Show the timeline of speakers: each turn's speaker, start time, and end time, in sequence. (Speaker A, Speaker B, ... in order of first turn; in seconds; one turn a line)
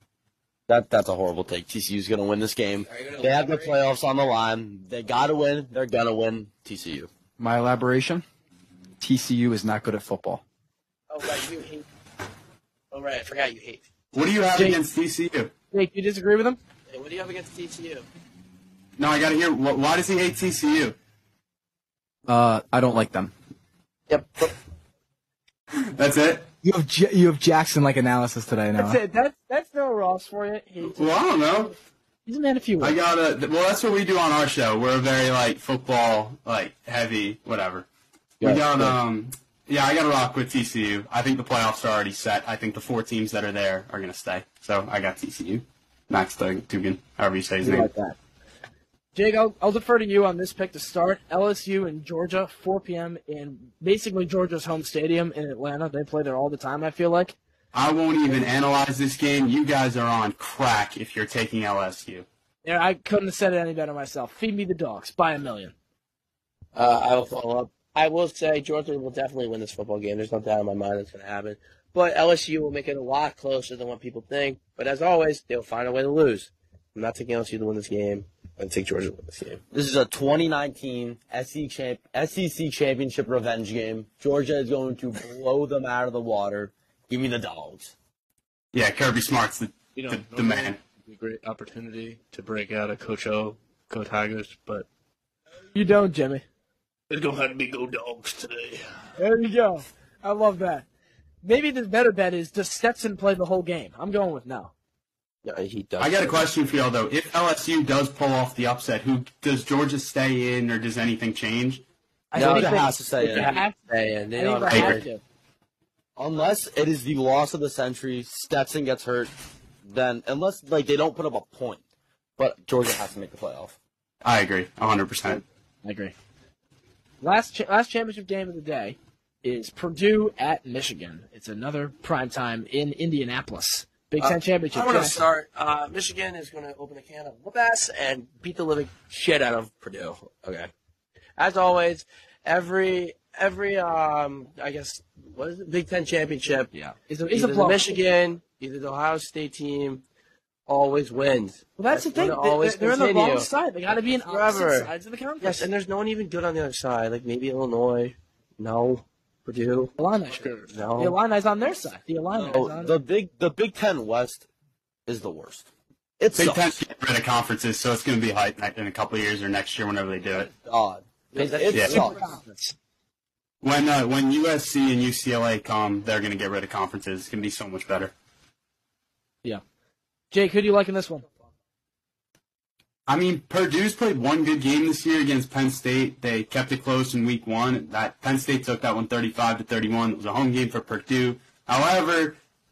Speaker A: 0.7-7.1
Speaker B: 2.9-3.8
Speaker C: 7.4-8.2
Speaker C: 9.0-10.4
Speaker B: 11.1-11.8
Speaker B: 12.9-13.9
Speaker D: 14.1-15.5
Speaker E: 15.7-16.6
Speaker B: 16.9-18.1
Speaker D: 19.0-20.9
Speaker C: 22.3-23.3
Speaker B: 24.1-24.5
Speaker D: 25.9-26.5
Speaker F: 26.6-29.0
Speaker E: 28.8-31.2
Speaker D: 30.8-31.8
Speaker E: 32.3-33.0
Speaker D: 32.8-37.9
Speaker D: 38.4-47.9
Speaker B: 38.4-38.7
Speaker A: 38.4-38.9
Speaker E: 49.1-57.4
Speaker D: 57.7-62.3
Speaker E: 62.6-65.7
Speaker B: 66.8-79.6
Speaker A: 79.7-87.9
Speaker D: 88.7-90.8
Speaker G: 89.9-94.9
Speaker E: 95.7-96.4
Speaker G: 97.1-98.8
Speaker E: 99.2-100.8
Speaker E: 101.4-104.7
Speaker B: 105.4-106.5
Speaker D: 106.0-111.8
Speaker E: 112.3-113.8
Speaker A: 112.4-113.6
Speaker B: 112.4-115.0
Speaker E: 114.4-115.2
Speaker A: 116.2-119.3
Speaker A: 119.8-121.8
Speaker A: 122.4-123.8
Speaker D: 124.2-125.4
Speaker E: 125.8-126.1
Speaker E: 127.2-135.2
Speaker B: 134.2-140.7
Speaker B: 141.4-146.7
Speaker E: 146.7-147.9
Speaker B: 147.3-150.0
Speaker B: 150.7-159.9
Speaker E: 151.8-155.7
Speaker E: 160.0-160.5
Speaker G: 160.3-160.8
Speaker B: 160.7-161.2
Speaker E: 161.0-162.9
Speaker A: 162.5-164.4
Speaker A: 165.1-165.7
Speaker A: 166.2-166.8
Speaker D: 166.3-170.5
Speaker A: 170.5-172.2
Speaker B: 171.3-172.4
Speaker D: 171.7-172.0
Speaker E: 171.8-172.7
Speaker D: 173.6-178.1
Speaker E: 180.3-181.3
Speaker D: 183.1-192.4